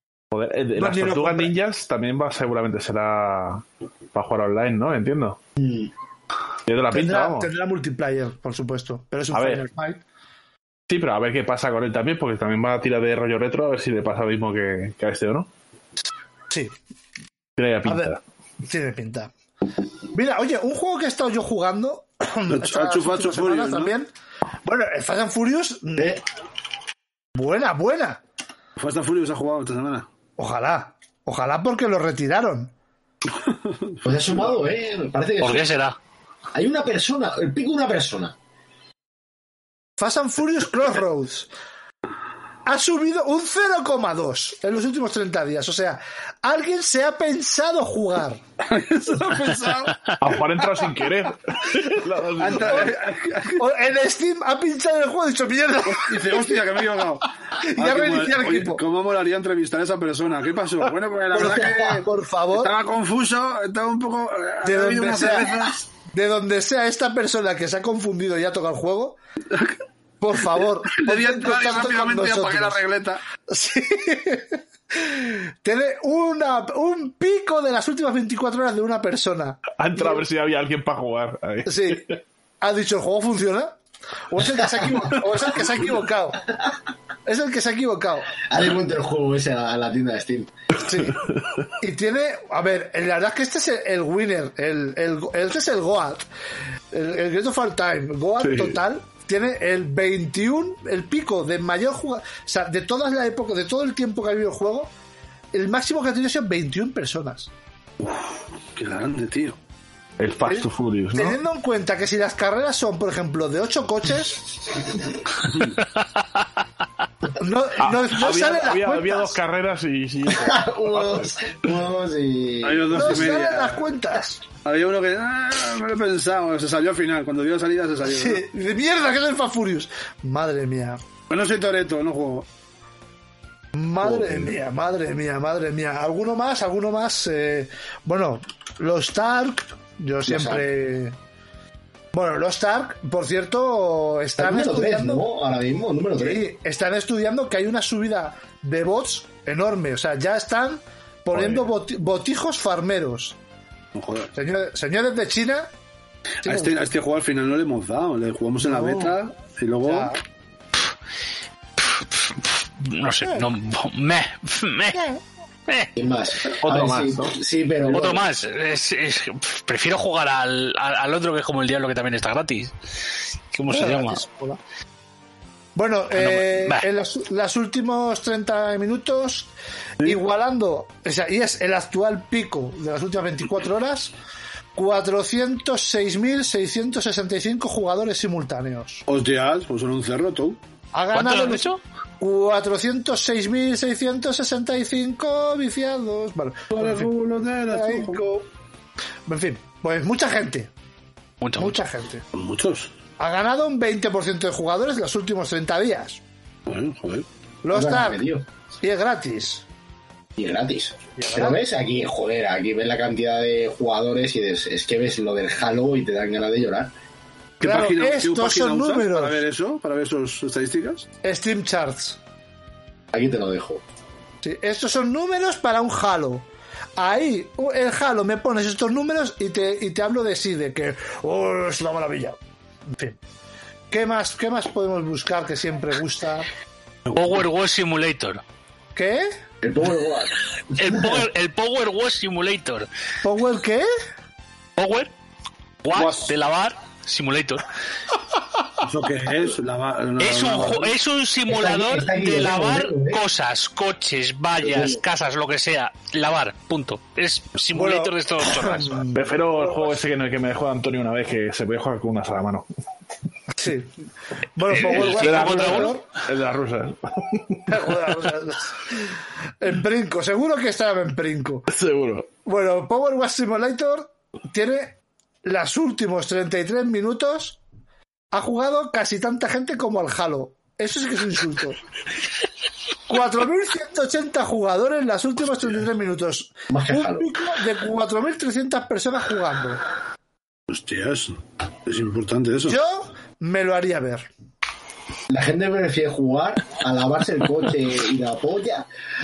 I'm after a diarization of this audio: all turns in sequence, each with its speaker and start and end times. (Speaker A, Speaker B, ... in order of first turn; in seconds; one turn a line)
Speaker A: 0.3-5.4
Speaker B: 0.8-1.5
Speaker C: 5.6-5.9
Speaker A: 6.7-7.5
Speaker B: 6.9-10.0
Speaker A: 9.3-9.6
Speaker A: 10.9-15.5
Speaker A: 17.6-18.2
Speaker B: 17.8-19.3
Speaker B: 20.1-24.1
Speaker D: 22.5-23.9
Speaker B: 24.6-26.2
Speaker B: 27.3-28.2
Speaker D: 28.8-30.1
Speaker B: 30.4-32.7
Speaker D: 33.5-33.9
Speaker C: 34.0-35.7
Speaker E: 35.4-36.0
Speaker C: 36.5-38.3
Speaker B: 40.0-41.5
Speaker B: 42.6-48.4
Speaker D: 48.6-50.2
Speaker A: 50.2-52.9
Speaker D: 52.4-53.6
Speaker B: 53.5-56.5
Speaker D: 55.9-65.8
Speaker B: 57.6-58.8
Speaker B: 61.3-62.7
Speaker B: 64.6-69.2
Speaker B: 70.2-72.8
Speaker D: 70.9-73.2
Speaker B: 73.5-80.2
Speaker A: 79.8-82.1
Speaker B: 81.7-82.1
Speaker B: 82.6-83.8
Speaker B: 84.3-86.4
Speaker B: 87.2-88.3
Speaker C: 88.5-90.5
Speaker B: 90.8-91.2
Speaker A: 91.3-91.5
Speaker B: 91.8-96.2
Speaker B: 96.9-104.9
Speaker A: 98.5-98.7
Speaker B: 105.5-107.5
Speaker D: 108.7-109.6
Speaker A: 110.2-111.4
Speaker B: 110.5-114.5
Speaker B: 117.4-119.4
Speaker A: 117.8-121.3
Speaker C: 120.3-123.2
Speaker D: 122.6-123.8
Speaker B: 122.9-124.4
Speaker D: 124.6-128.4
Speaker B: 128.0-131.0
Speaker D: 131.3-132.4
Speaker B: 133.7-141.2
Speaker D: 134.1-134.5
Speaker C: 140.2-140.6
Speaker B: 142.1-145.2
Speaker C: 144.4-146.4
Speaker B: 146.2-153.4
Speaker D: 151.3-151.6
Speaker D: 153.9-154.3
Speaker B: 154.3-155.7
Speaker D: 156.4-160.2
Speaker B: 156.4-156.7
Speaker B: 158.6-159.2
Speaker B: 159.8-160.2
Speaker E: 161.8-165.0
Speaker B: 163.2-163.5
Speaker B: 164.9-165.2
Speaker C: 165.9-168.2
Speaker A: 166.5-167.4
Speaker E: 167.9-172.7
Speaker E: 173.5-174.2
Speaker B: 173.7-174.6
Speaker B: 175.7-184.1
Speaker E: 176.2-176.8
Speaker B: 184.7-189.0
Speaker D: 189.1-190.6
Speaker B: 190.9-191.7
Speaker E: 191.1-191.8
Speaker B: 192.2-197.1
Speaker D: 196.7-198.2
Speaker B: 197.6-198.5
Speaker B: 199.3-200.7
Speaker E: 201.4-201.8
Speaker B: 201.6-202.2
Speaker D: 202.3-202.9
Speaker B: 203.2-206.2
Speaker D: 206.7-207.3
Speaker B: 207.6-208.2
Speaker C: 207.7-208.4
Speaker B: 208.8-209.6
Speaker C: 210.4-216.9
Speaker B: 211.2-211.6
Speaker B: 217.6-219.4
Speaker D: 217.6-221.1
Speaker B: 221.2-222.2
Speaker C: 223.1-223.8
Speaker B: 224.4-233.2
Speaker B: 233.9-236.5
Speaker E: 237.1-238.4
Speaker B: 238.9-239.3
Speaker C: 239.6-241.2
Speaker E: 240.7-242.9
Speaker B: 243.2-243.9
Speaker E: 244.8-245.1
Speaker E: 245.8-247.6
Speaker D: 245.9-246.3
Speaker D: 248.8-250.9
Speaker E: 250.2-259.0
Speaker C: 251.4-253.2
Speaker C: 254.6-255.0
Speaker B: 257.7-259.3
Speaker A: 259.1-262.7
Speaker B: 263.6-263.9
Speaker B: 264.6-266.1
Speaker E: 264.7-266.0
Speaker A: 264.8-267.8
Speaker B: 267.7-271.7
Speaker A: 271.7-272.3
Speaker B: 272.4-277.6
Speaker B: 278.3-281.8
Speaker B: 283.1-289.8
Speaker C: 286.7-287.3
Speaker D: 290.7-292.8
Speaker B: 292.6-294.3
Speaker C: 295.3-298.9